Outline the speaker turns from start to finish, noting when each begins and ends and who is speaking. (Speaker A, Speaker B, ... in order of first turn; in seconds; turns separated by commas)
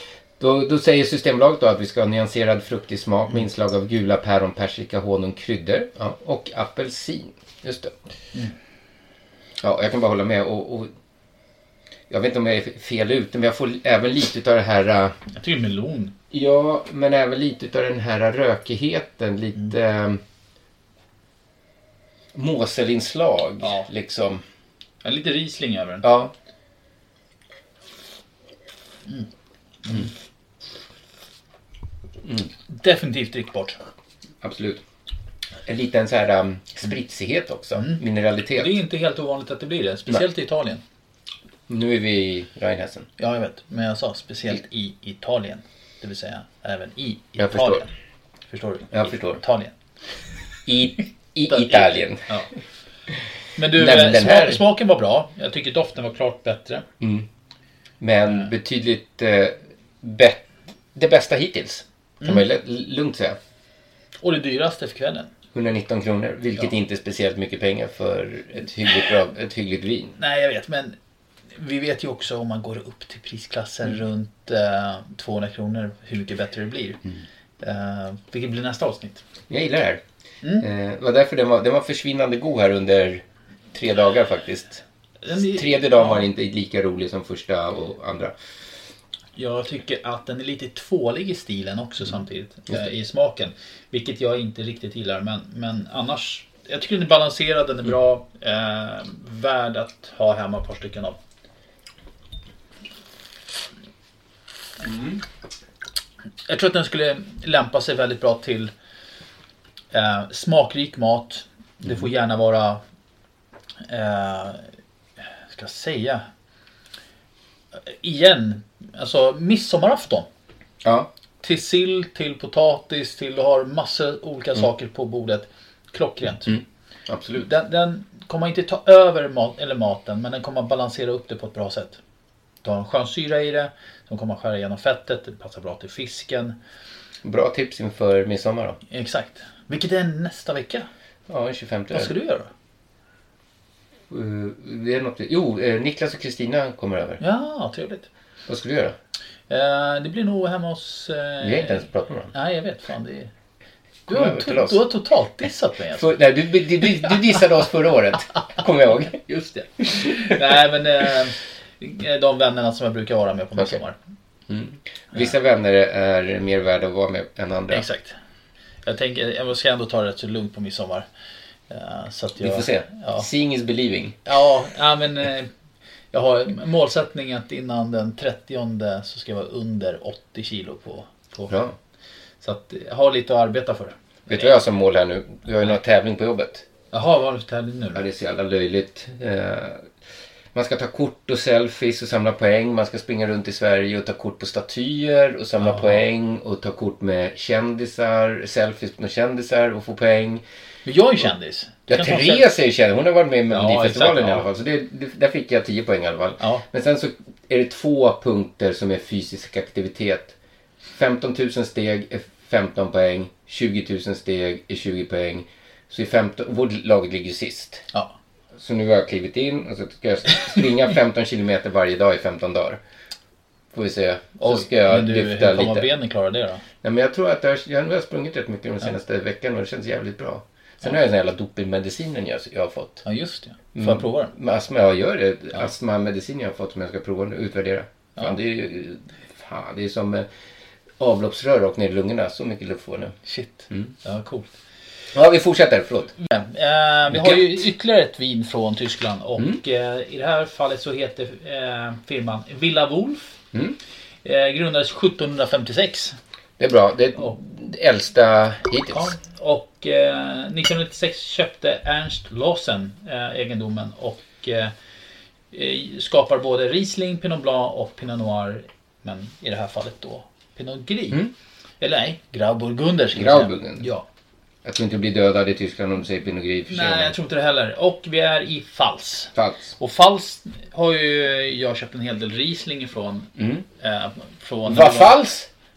Speaker A: 0.4-8.0, Speaker A: 9.6-10.9, Speaker A: 12.1-15.2, Speaker B: 15.3-16.1, Speaker A: 16.3-20.2, Speaker A: 22.3-24.4, Speaker B: 23.6-23.9, Speaker B: 25.0-26.0, Speaker A: 26.0-26.3, Speaker B: 29.8-30.1, Speaker A: 32.2-32.5, Speaker B: 32.7-33.8, Speaker A: 34.4-34.8, Speaker A: 35.6-38.8, Speaker B: 37.8-38.0, Speaker B: 38.5-40.8, Speaker A: 41.7-43.1, Speaker B: 43.2-47.9, Speaker A: 47.4-47.8, Speaker B: 48.5-49.7, Speaker A: 48.9-49.4, Speaker A: 50.6-52.2, Speaker B: 51.5-52.5, Speaker B: 53.6-56.8, Speaker A: 53.7-54.6, Speaker A: 57.0-57.3, Speaker A: 58.0-60.4, Speaker A: 60.9-63.4, Speaker B: 64.2-65.3, Speaker A: 65.5-70.2, Speaker B: 70.2-71.0, Speaker B: 71.5-77.0, Speaker B: 77.6-79.2, Speaker A: 79.5-80.0, Speaker A: 80.6-84.8, Speaker B: 85.2-86.3, Speaker A: 85.3-88.3, Speaker B: 89.3-101.2, Speaker B: 106.5-108.7, Speaker B: 109.9-112.8, Speaker B: 113.9-114.7, Speaker B: 115.5-116.2, Speaker B: 117.9-120.3, Speaker A: 120.8-121.1, Speaker B: 121.4-126.6, Speaker A: 126.4-127.5, Speaker B: 127.4-132.0, Speaker B: 132.6-136.6, Speaker A: 137.2-138.8, Speaker B: 138.9-140.9, Speaker A: 141.3-142.1, Speaker B: 141.9-142.5, Speaker A: 144.1-147.2, Speaker B: 147.2-148.1, Speaker A: 148.5-148.9, Speaker B: 149.5-153.3, Speaker A: 151.4-152.3, Speaker A: 154.1-154.8, Speaker B: 154.1-156.2, Speaker A: 155.9-159.2, Speaker B: 159.2-164.0, Speaker A: 164.5-167.8, Speaker B: 167.7-168.1, Speaker B: 168.8-171.1, Speaker B: 171.7-173.2, Speaker A: 172.4-174.2, Speaker B: 174.2-175.5, Speaker B: 176.1-181.5, Speaker A: 181.5-181.8, Speaker B: 182.4-184.5, Speaker A: 184.3-186.6, Speaker B: 186.9-188.0, Speaker A: 187.9-189.9, Speaker A: 190.5-200.4, Speaker B: 195.6-196.0, Speaker B: 200.8-202.5, Speaker A: 201.9-210.3, Speaker B: 203.5-204.4, Speaker A: 210.9-217.8, Speaker A: 218.6-222.8, Speaker A: 223.7-225.9, Speaker B: 224.4-226.6, Speaker A: 226.8-233.0, Speaker B: 233.0-234.3, Speaker A: 233.7-240.3, Speaker A: 241.0-243.1, Speaker B: 243.2-244.5, Speaker A: 245.1-246.1, Speaker B: 246.2-253.4, Speaker A: 247.1-247.6, Speaker B: 254.2-256.1, Speaker A: 256.6-259.1, Speaker B: 258.9-264.7, Speaker B: 265.5-271.3, Speaker B: 271.8-274.1, Speaker A: 273.1-273.9, Speaker A: 274.6-277.1, Speaker B: 276.7-285.2, Speaker A: 279.3-279.7, Speaker A: 283.4-283.6, Speaker A: 284.6-285.5